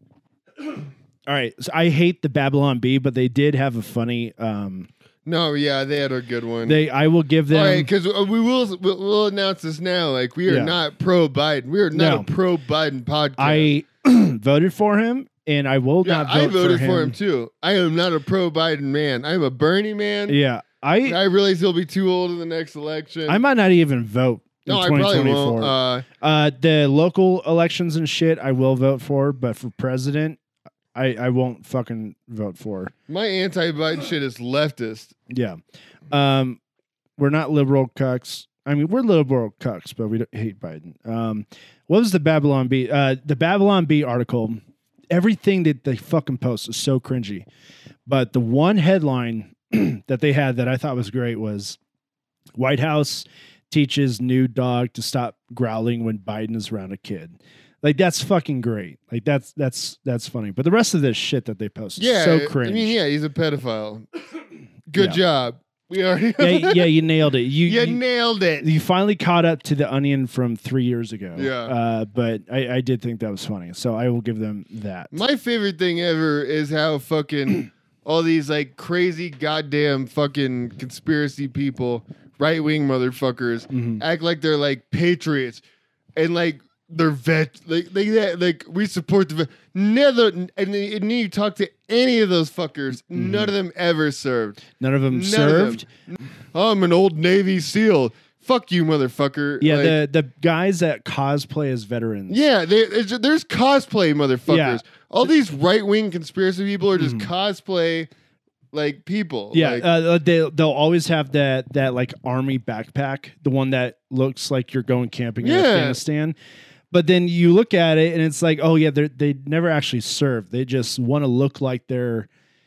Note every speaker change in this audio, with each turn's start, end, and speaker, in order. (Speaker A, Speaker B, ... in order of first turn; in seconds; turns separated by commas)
Speaker A: 0.6-4.9, Speaker B: 5.3-6.8, Speaker A: 6.7-7.9, Speaker B: 7.5-13.7, Speaker A: 10.5-10.8, Speaker A: 11.9-12.3, Speaker A: 13.4-17.2, Speaker B: 16.0-20.4, Speaker A: 20.3-21.2, Speaker B: 21.1-23.4, Speaker A: 23.3-30.4, Speaker B: 24.7-26.1, Speaker A: 30.9-32.9, Speaker B: 33.1-35.1, Speaker A: 35.3-35.6, Speaker A: 36.1-36.6, Speaker A: 37.2-47.5, Speaker A: 48.1-51.8, Speaker A: 52.6-63.0, Speaker B: 62.0-64.1, Speaker B: 64.9-66.9, Speaker A: 66.4-68.0, Speaker B: 67.6-68.7, Speaker A: 68.6-75.1, Speaker B: 71.3-71.7, Speaker B: 75.1-85.6, Speaker A: 83.7-84.0, Speaker B: 86.2-100.0, Speaker A: 93.1-93.5, Speaker A: 94.8-95.9, Speaker A: 99.6-102.4, Speaker B: 102.3-108.1, Speaker A: 104.5-105.3, Speaker A: 107.0-107.3, Speaker B: 108.7-109.9, Speaker A: 109.5-116.4, Speaker B: 115.4-116.0, Speaker A: 116.9-122.3